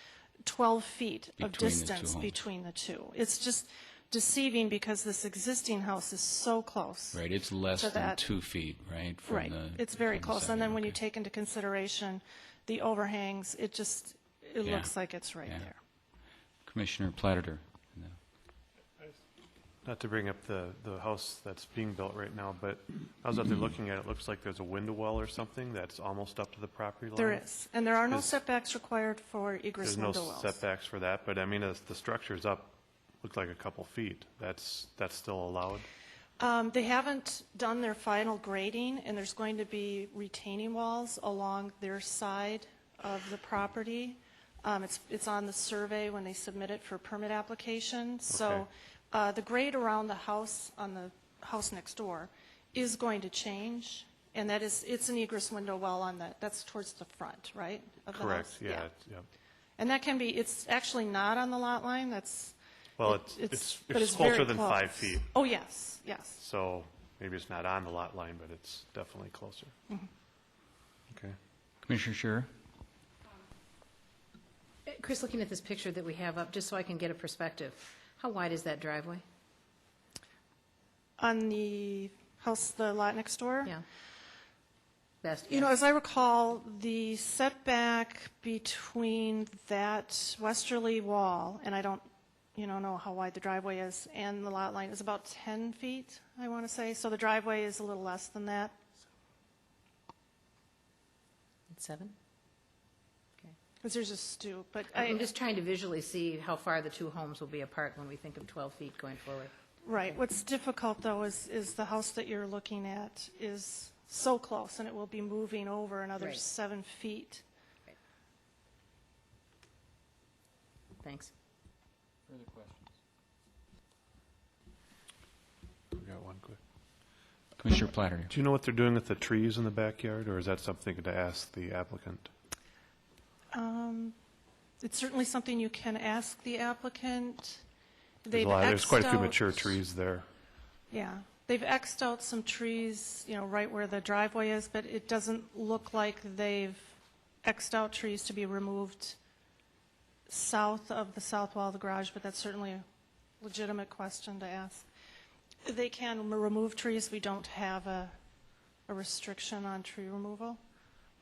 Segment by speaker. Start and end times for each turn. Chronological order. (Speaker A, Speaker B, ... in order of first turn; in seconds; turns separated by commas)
Speaker A: 0.4-8.2, Speaker B: 1.4-2.4, Speaker B: 7.1-11.0, Speaker A: 9.2-15.8, Speaker B: 14.6-15.7, Speaker B: 16.6-18.2, Speaker C: 19.8-27.5, Speaker A: 27.2-30.6, Speaker C: 28.1-28.4, Speaker C: 29.8-35.9, Speaker A: 36.4-58.9, Speaker C: 48.3-48.7, Speaker C: 58.1-59.2, Speaker A: 59.8-66.4, Speaker C: 63.0-65.3, Speaker C: 66.4-69.7, Speaker C: 71.1-71.4, Speaker B: 71.8-72.5, Speaker D: 74.9-79.2, Speaker A: 81.2-83.7, Speaker D: 85.2-85.7, Speaker A: 85.5-98.8, Speaker D: 101.7-102.2, Speaker A: 103.8-105.3, Speaker D: 105.0-109.5, Speaker A: 109.8-117.4, Speaker D: 116.2-116.4, Speaker D: 121.0-121.3, Speaker C: 125.9-126.6, Speaker B: 127.6-128.3, Speaker C: 128.3-132.3, Speaker A: 133.5-134.2, Speaker A: 134.8-137.6, Speaker A: 138.2-139.8, Speaker C: 138.3-140.3, Speaker A: 140.9-149.2, Speaker A: 150.3-152.8, Speaker A: 153.4-154.9, Speaker A: 155.6-158.1, Speaker A: 158.9-160.6